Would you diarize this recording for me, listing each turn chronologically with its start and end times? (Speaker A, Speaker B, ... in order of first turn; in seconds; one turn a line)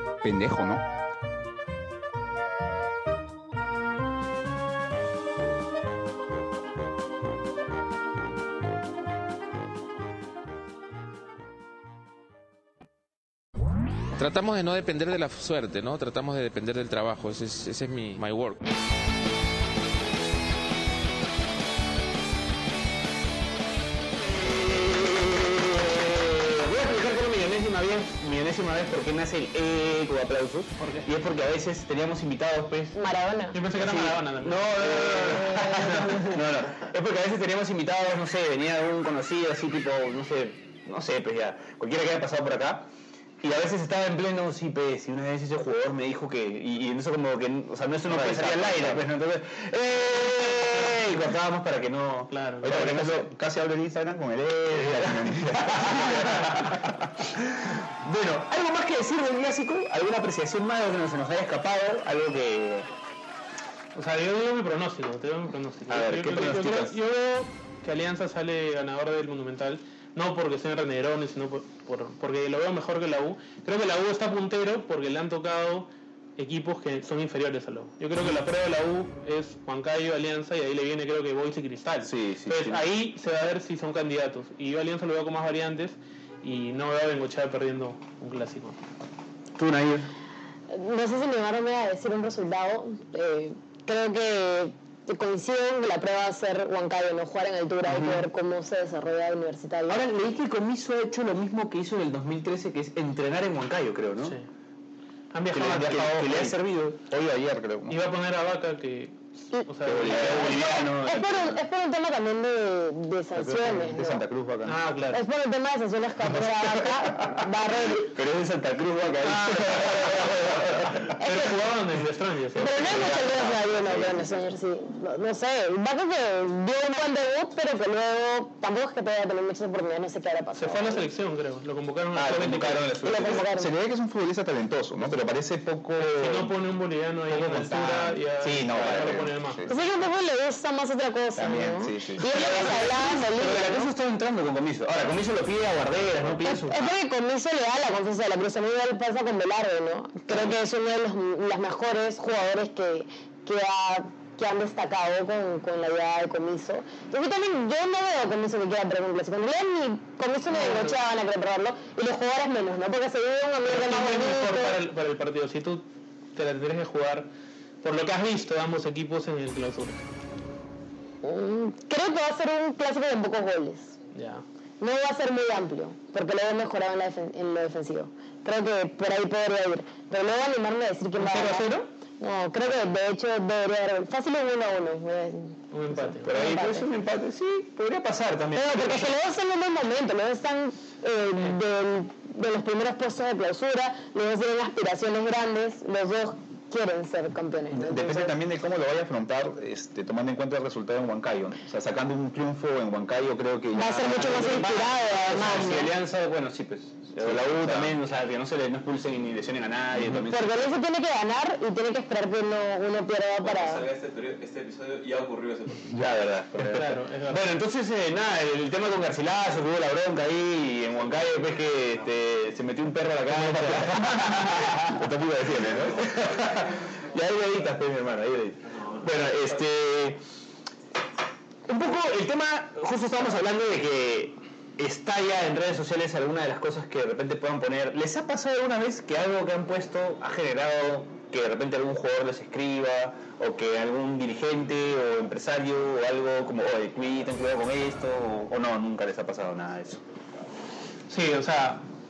Speaker A: 0.2-0.8
Speaker B: 14.2-18.6
Speaker C: 24.2-32.9
Speaker D: 30.8-31.1
Speaker E: 32.9-33.6
Speaker D: 33.5-36.2
Speaker C: 33.7-42.9
Speaker E: 35.0-36.3
Speaker C: 43.4-53.3
Speaker A: 48.0-49.1
Speaker D: 52.3-52.9
Speaker A: 52.6-56.7
Speaker C: 54.7-62.9
Speaker D: 63.9-88.8
Speaker C: 65.9-66.9
Speaker C: 82.0-82.8
Speaker C: 89.5-90.1
Speaker E: 90.7-100.0
Speaker C: 97.8-98.2
Speaker C: 99.9-104.4
Speaker D: 104.2-104.5
Speaker D: 105.3-106.5
Speaker C: 105.5-107.0
Speaker A: 105.8-108.0
Speaker D: 107.9-110.8
Speaker E: 109.5-114.2
Speaker C: 109.8-111.6
Speaker A: 113.3-114.8
Speaker D: 114.7-115.2
Speaker E: 115.1-118.1
Speaker C: 118.0-121.2
Speaker D: 119.2-120.2
Speaker D: 121.1-122.7
Speaker E: 121.2-121.5
Speaker E: 122.5-131.0
Speaker C: 122.6-124.2
Speaker D: 130.6-132.9
Speaker C: 132.1-133.5
Speaker E: 133.0-133.7
Speaker A: 133.5-136.5
Speaker D: 136.1-139.7
Speaker A: 137.3-139.7
Speaker C: 137.3-137.9
Speaker C: 138.7-139.2
Speaker E: 139.7-143.9
Speaker A: 141.3-142.3
Speaker C: 142.2-146.9
Speaker E: 146.4-164.8
Speaker D: 160.5-161.0
Speaker D: 163.7-167.3
Speaker D: 167.8-170.0
Speaker E: 171.2-173.9
Speaker D: 174.1-174.4
Speaker E: 174.8-186.9
Speaker D: 181.2-181.9
Speaker D: 185.7-186.4
Speaker C: 186.2-189.1
Speaker E: 188.5-198.3
Speaker A: 197.7-204.8
Speaker E: 203.7-205.9
Speaker C: 204.0-210.7
Speaker A: 207.2-208.0
Speaker E: 210.3-213.8
Speaker F: 213.4-215.9
Speaker C: 215.9-230.2
Speaker D: 216.6-217.4
Speaker D: 223.3-223.9
Speaker F: 225.8-226.0
Speaker C: 231.7-250.0
Speaker D: 251.1-251.8